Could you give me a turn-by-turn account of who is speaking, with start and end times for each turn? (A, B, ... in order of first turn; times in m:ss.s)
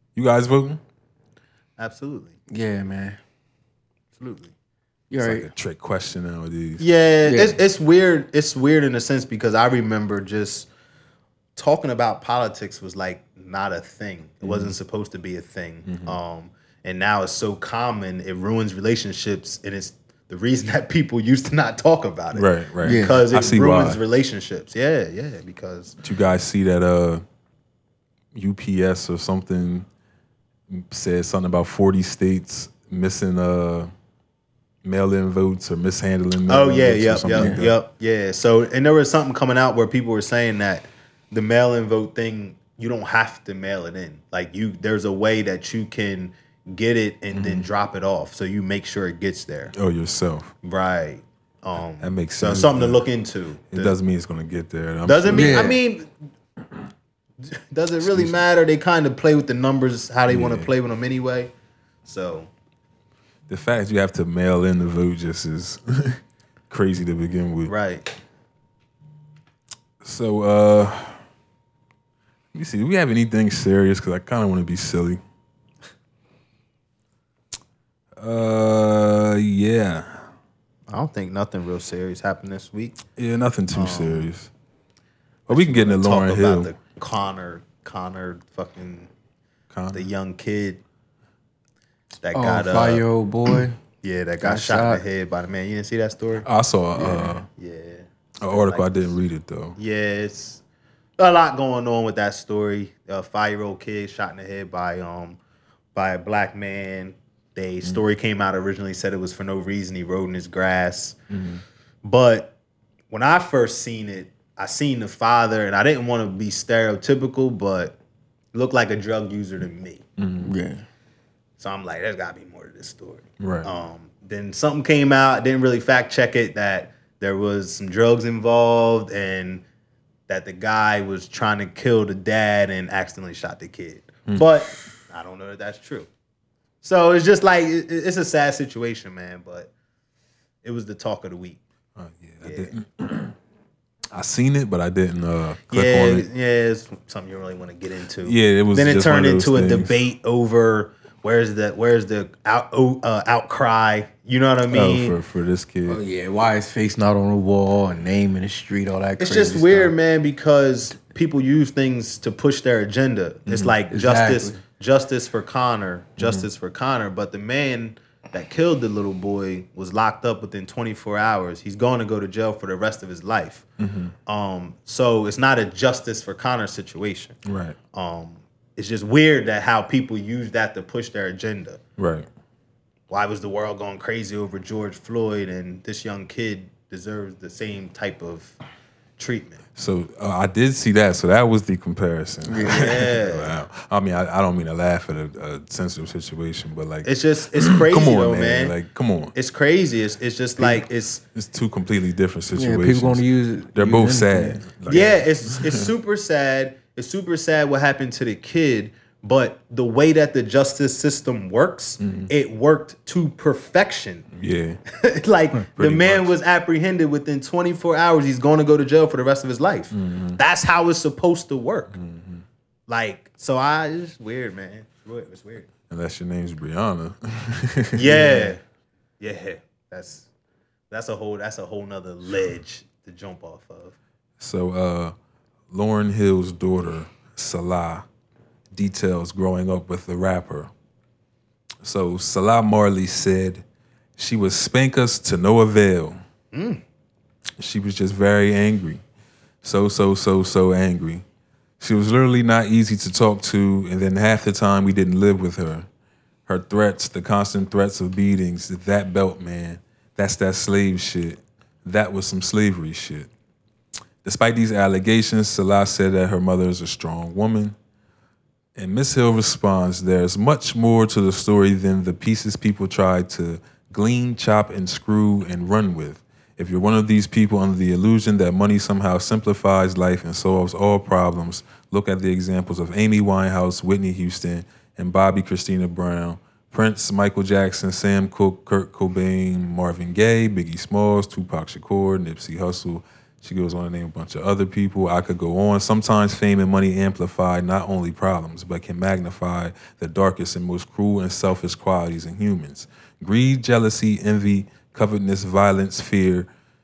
0:00.2-0:00.8 A
0:01.8-0:02.4 B
0:02.5-0:03.2 C
0:04.2-0:04.5 B
0:05.1-0:05.5 C
0:05.2-0:06.8 A
0:06.8-0:10.7 B
0:07.3-0:07.6 C
0:11.6-0:26.0 B
0:14.4-0:14.7 A
0:15.8-0:16.2 A
0:22.3-0:24.0 A
0:22.8-0:23.2 C
0:26.0-0:27.2 A
0:28.3-0:29.9 A
0:30.7-0:33.9 A
0:34.8-0:37.8 A
0:36.5-0:49.7 B
0:37.3-0:37.6 C
0:47.3-0:47.7 A
0:49.7-0:50.5 A
0:50.6-0:54.0 B
0:52.0-0:53.0 A
0:53.7-0:55.6 A
0:55.0-0:56.1 B
0:55.3-0:55.8 C
0:57.4-1:01.5 B
1:00.3-1:00.7 A
1:02.0-1:02.5 B
1:03.5-1:07.7 A
1:07.7-1:08.1 B
1:10.0-1:11.2 A
1:12.5-1:15.2 A
1:18.2-1:20.2 A
1:20.9-1:23.0 B
1:23.2-1:24.5 A
1:23.7-1:24.3 B
1:25.5-1:26.7 A
1:25.5-1:29.1 B
1:29.7-1:30.1 A
1:29.9-1:30.8 B
1:32.2-1:33.0 B
1:32.3-1:33.8 C
1:34.0-1:36.5 B
1:34.4-1:35.0 C
1:36.4-1:37.5 A
1:37.0-1:37.3 C
1:37.5-1:39.1 B
1:38.4-1:39.8 A
1:39.8-1:40.6 B
1:41.2-1:45.4 B
1:46.0-1:51.2 B
1:51.3-1:51.6 A
1:52.0-1:52.5 B
1:53.1-1:58.0 B
1:58.5-2:00.0 B
2:00.2-2:00.5 A
2:00.4-2:00.8 C
2:01.6-2:09.6 B
2:03.4-2:03.7 A
2:10.3-2:16.1 B
2:16.8-2:19.7 B
2:20.6-2:21.6 B
2:22.0-2:23.3 A
2:22.4-2:22.7 B
2:24.1-2:26.3 A
2:25.7-2:35.2 B
2:28.2-2:30.0 A
2:34.7-2:36.0 A
2:35.9-2:39.9 C
2:39.2-2:53.6 B
2:43.5-2:43.8 A
2:43.9-2:44.6 C
2:46.2-2:46.4 A
2:53.8-2:54.1 A
2:54.3-2:57.4 B
2:57.4-2:57.8 A
2:57.9-3:01.8 B
3:02.0-3:02.3 A
3:03.1-3:08.6 B
3:09.2-3:09.6 B
3:09.8-3:19.3 A
3:12.5-3:13.0 C
3:12.6-3:13.6 B
3:17.0-3:18.8 B
3:19.4-3:21.2 B
3:21.3-3:25.9 A
3:22.6-3:24.6 C
3:24.9-3:34.2 B
3:32.0-3:32.3 A
3:34.3-3:34.8 A
3:34.9-3:41.9 B
3:35.7-3:36.3 A
3:39.9-3:40.4 A
3:41.9-3:42.4 A
3:42.9-3:45.7 B
3:45.9-3:48.5 A
3:48.0-3:48.6 B
3:49.2-3:50.3 B
3:50.9-3:54.0 B
3:54.4-3:55.1 A
3:55.7-3:58.1 A
3:58.7-4:00.7 A
4:01.8-4:03.6 A
4:04.2-4:06.2 A
4:06.5-4:06.8 B
4:07.6-4:09.0 A
4:09.6-4:11.2 A
4:11.8-4:15.9 A
4:16.5-4:23.3 A
4:24.2-4:27.8 A
4:28.8-5:06.5 A